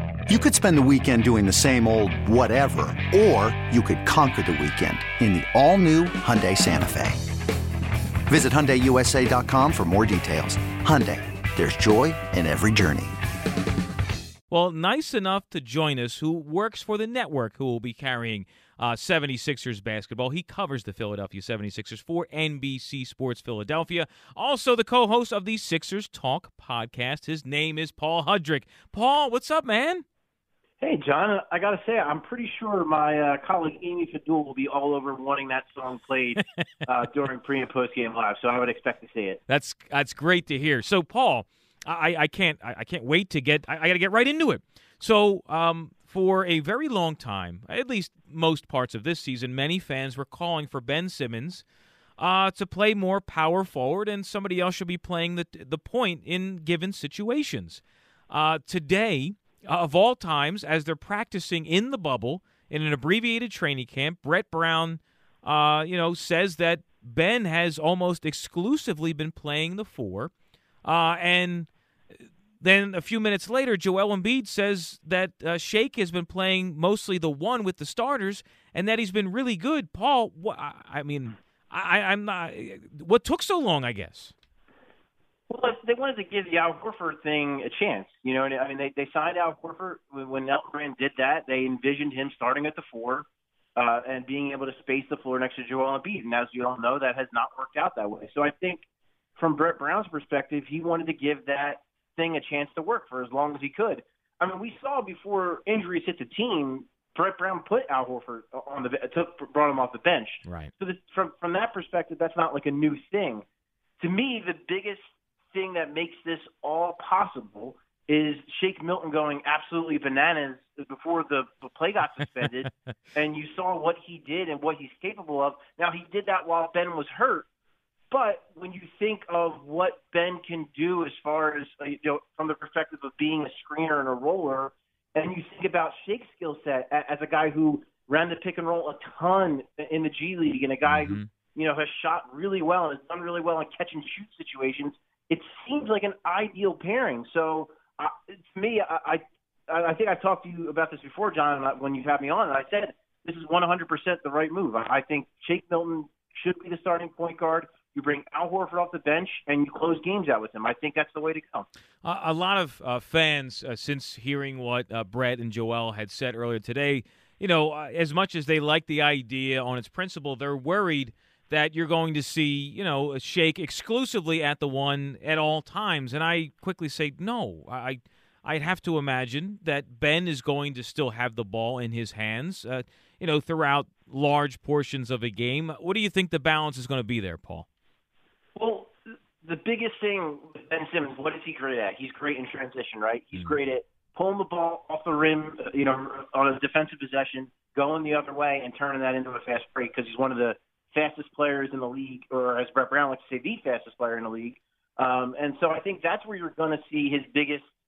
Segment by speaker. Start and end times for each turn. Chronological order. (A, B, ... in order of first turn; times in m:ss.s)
0:00.3-0:07.2 A
0:08.3-0:13.2 A
0:14.5-0:30.0 B
0:30.8-0:39.4 C
0:39.5-0:51.6 B
0:52.2-1:10.3 B
1:10.8-1:11.7 B
1:12.6-1:24.3 B
1:25.5-1:33.2 C
1:33.8-1:38.8 C
1:39.4-1:53.4 C
1:50.4-1:50.7 B
1:54.0-2:07.4 C
2:08.1-2:41.7 C
2:20.8-2:21.3 B
2:42.0-3:07.6 B
3:08.6-3:27.7 C